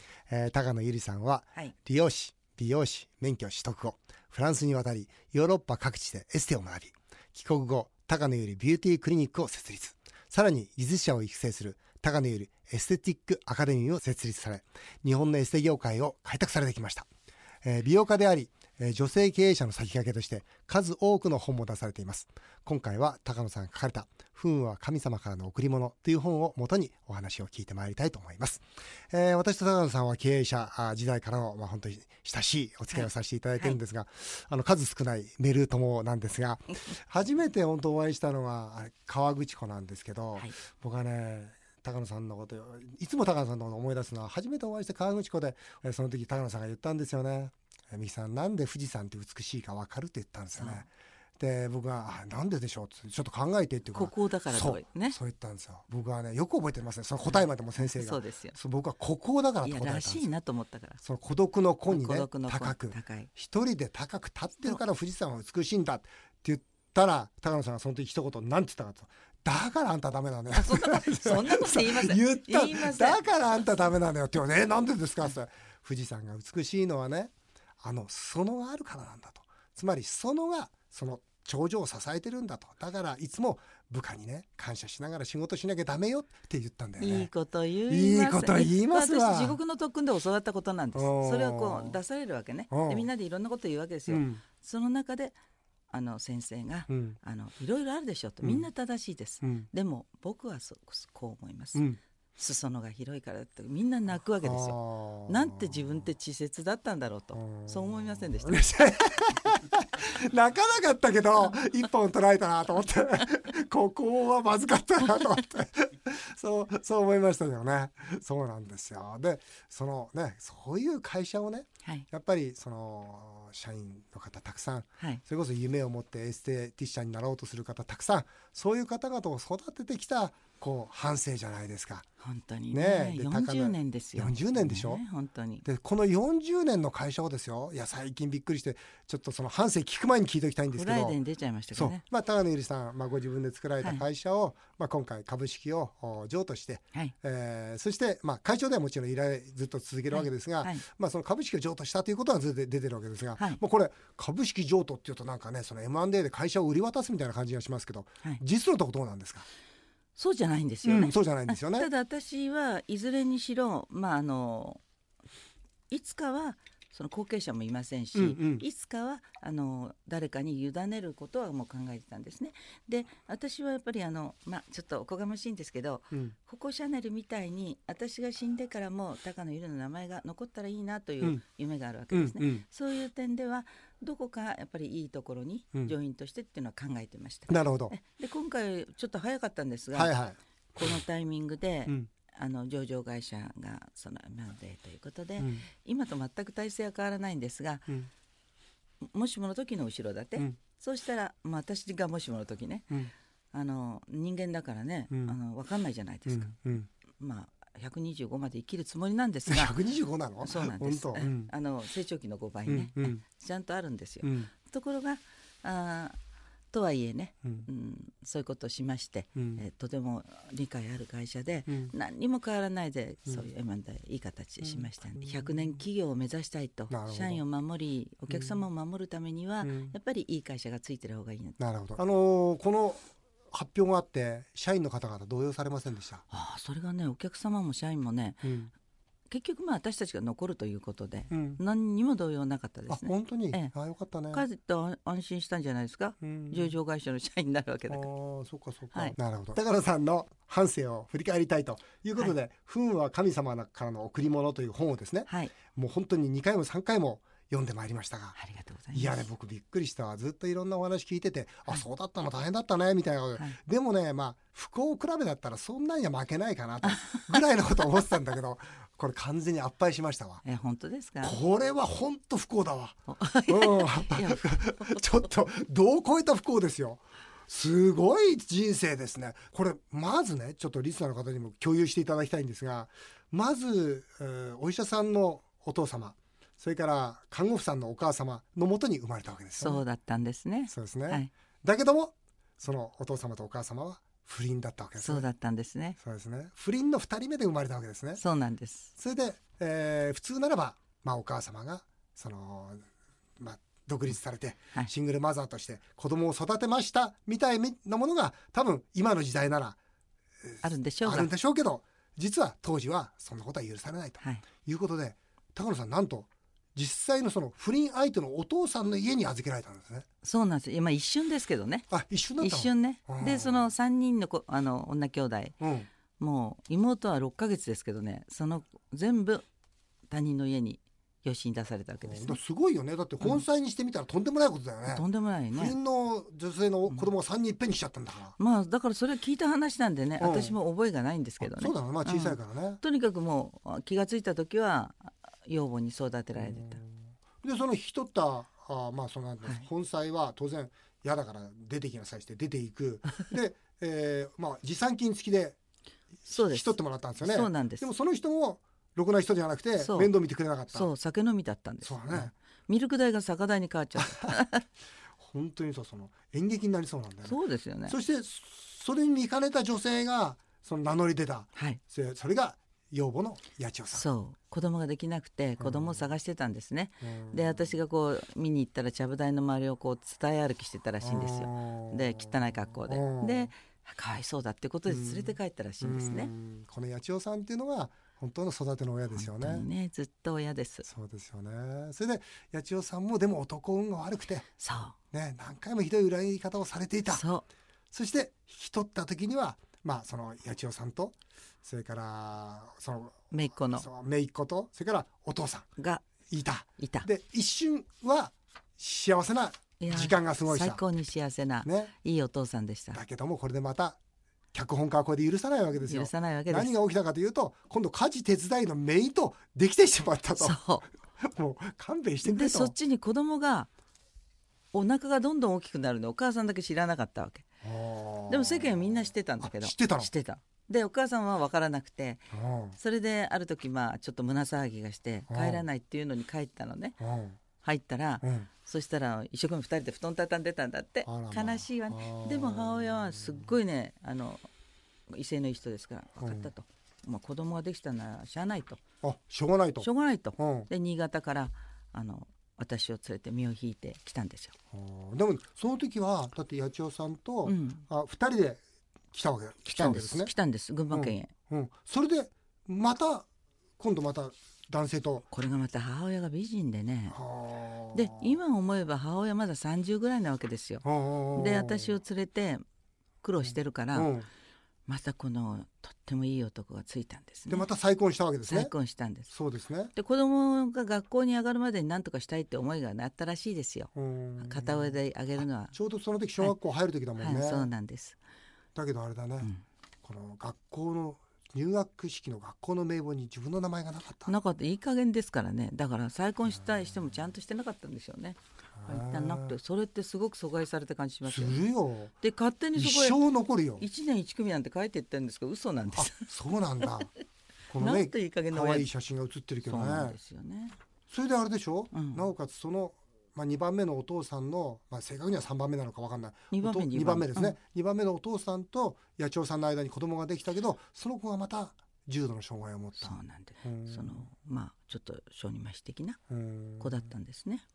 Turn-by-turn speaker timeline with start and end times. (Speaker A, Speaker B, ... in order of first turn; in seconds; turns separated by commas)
Speaker A: 0.3-17.1, Speaker A: 17.6-60.3, Speaker B: 32.9-33.8, Speaker B: 50.5-50.9, Speaker B: 53.9-55.2, Speaker B: 57.3-58.6, Speaker B: 59.6-61.0, Speaker A: 61.0-87.3, Speaker B: 61.9-63.3, Speaker B: 70.5-73.9, Speaker B: 87.0-95.4, Speaker A: 87.9-89.6, Speaker A: 90.9-92.0, Speaker A: 92.7-93.1, Speaker A: 94.1-94.4, Speaker B: 95.9-101.8, Speaker A: 96.9-97.2, Speaker A: 98.4-98.7, Speaker A: 99.4-99.7, Speaker A: 101.8-102.0, Speaker B: 102.4-109.0, Speaker A: 104.4-106.1, Speaker A: 107.3-132.1, Speaker B: 132.2-135.7, Speaker A: 132.7-135.0, Speaker A: 135.6-141.2, Speaker B: 140.7-142.0, Speaker A: 141.7-159.5, Speaker B: 150.1-150.8, Speaker B: 160.2-164.8, Speaker A: 160.8-161.9, Speaker B: 165.9-190.1, Speaker A: 168.1-168.7, Speaker A: 182.1-182.7, Speaker A: 187.5-187.9, Speaker A: 189.9-191.0, Speaker B: 190.8-197.9, Speaker A: 195.4-195.7, Speaker B: 199.0-203.0, Speaker B: 203.5-206.6, Speaker A: 205.1-205.4, Speaker A: 206.3-206.9, Speaker B: 207.2-209.8, Speaker A: 209.5-211.5, Speaker B: 210.4-216.2, Speaker A: 212.7-213.2, Speaker A: 214.2-214.5, Speaker B: 216.7-231.6, Speaker A: 219.4-219.6, Speaker A: 221.7-221.9, Speaker A: 224.6-225.8, Speaker A: 226.9-227.4, Speaker A: 228.3-228.6, Speaker A: 229.6-229.9, Speaker A: 231.6-236.2, Speaker B: 236.3-238.5, Speaker A: 238.4-238.7, Speaker B: 239.3-243.7, Speaker A: 241.3-241.6, Speaker A: 242.9-244.4, Speaker B: 244.3-248.1, Speaker A: 246.2-246.8, Speaker A: 247.9-258.4, Speaker B: 255.3-255.6, Speaker B: 258.4-259.3, Speaker A: 258.9-270.4, Speaker B: 266.8-267.4, Speaker B: 270.4-271.4, Speaker A: 271.2-289.8, Speaker B: 273.1-275.3, Speaker B: 289.6-291.3, Speaker A: 290.7-295.3, Speaker B: 295.0-296.0, Speaker A: 296.0-298.2, Speaker B: 298.2-298.9, Speaker A: 299.0-302.9, Speaker A: 303.4-309.8, Speaker A: 310.4-320.1, Speaker B: 310.6-311.3, Speaker B: 320.2-321.9, Speaker A: 321.9-323.7, Speaker B: 322.4-325.6, Speaker A: 325.6-325.9, Speaker B: 326.2-329.4, Speaker B: 330.1-332.4, Speaker A: 332.0-338.4, Speaker B: 334.9-335.8, Speaker B: 338.4-346.8, Speaker A: 340.2-340.6, Speaker A: 341.4-342.8, Speaker A: 346.4-355.6, Speaker A: 356.2-360.9, Speaker B: 356.3-357.9, Speaker B: 359.8-360.1, Speaker B: 360.7-364.6, Speaker A: 361.8-362.3, Speaker A: 365.2-374.1, Speaker B: 367.2-368.0, Speaker B: 371.6-371.8, Speaker B: 373.9-386.3, Speaker A: 375.6-376.1, Speaker A: 377.0-377.7, Speaker A: 381.0-383.5, Speaker A: 384.9-389.7, Speaker B: 389.1-390.9, Speaker A: 390.9-394.5, Speaker B: 394.6-395.0, Speaker A: 395.1-397.2, Speaker B: 397.1-397.5, Speaker A: 397.9-403.2, Speaker B: 403.3-403.9, Speaker A: 403.7-405.7, Speaker B: 405.8-406.0, Speaker A: 406.3-410.8, Speaker B: 406.8-407.1, Speaker B: 409.8-413.0, Speaker A: 411.6-411.9, Speaker A: 412.9-414.0, Speaker A: 414.5-420.6, Speaker B: 415.9-416.8, Speaker B: 420.4-420.9, Speaker A: 421.2-422.7, Speaker B: 422.2-423.7, Speaker B: 424.7-427.4, Speaker A: 427.6-430.1, Speaker B: 428.3-437.0, Speaker A: 432.3-432.8, Speaker A: 435.3-435.7, Speaker A: 437.0-437.4, Speaker B: 437.6-444.5, Speaker A: 438.2-438.5, Speaker A: 441.1-443.6, Speaker B: 445.1-448.8, Speaker A: 446.2-446.5, Speaker A: 449.0-450.7, Speaker B: 449.8-454.5, Speaker A: 454.7-458.6, Speaker B: 457.4-457.9, Speaker A: 459.1-460.3, Speaker B: 459.7-461.3, Speaker A: 460.9-463.3, Speaker A: 463.8-465.3, Speaker B: 465.3-467.2, Speaker A: 467.1-468.4, Speaker B: 467.9-472.6, Speaker A: 470.8-472.0, Speaker B: 473.2-474.1, Speaker A: 473.4-474.3, Speaker B: 474.9-477.7, Speaker A: 477.5-478.7, Speaker B: 478.5-479.3, Speaker A: 479.3-479.9, Speaker B: 479.9-485.8, Speaker A: 483.9-487.7, Speaker B: 487.2-488.2, Speaker A: 488.8-489.5, Speaker A: 490.0-494.3, Speaker B: 494.3-501.6, Speaker A: 498.8-499.6, Speaker A: 501.2-502.1, Speaker B: 502.2-503.2, Speaker A: 502.8-503.9, Speaker B: 503.8-507.0, Speaker A: 505.9-507.1, Speaker A: 507.7-510.2, Speaker B: 507.8-508.9, Speaker B: 509.6-510.8, Speaker A: 511.1-524.3, Speaker B: 511.9-512.3, Speaker B: 516.5-517.6, Speaker B: 523.0-526.2, Speaker A: 526.3-527.1, Speaker B: 526.8-527.6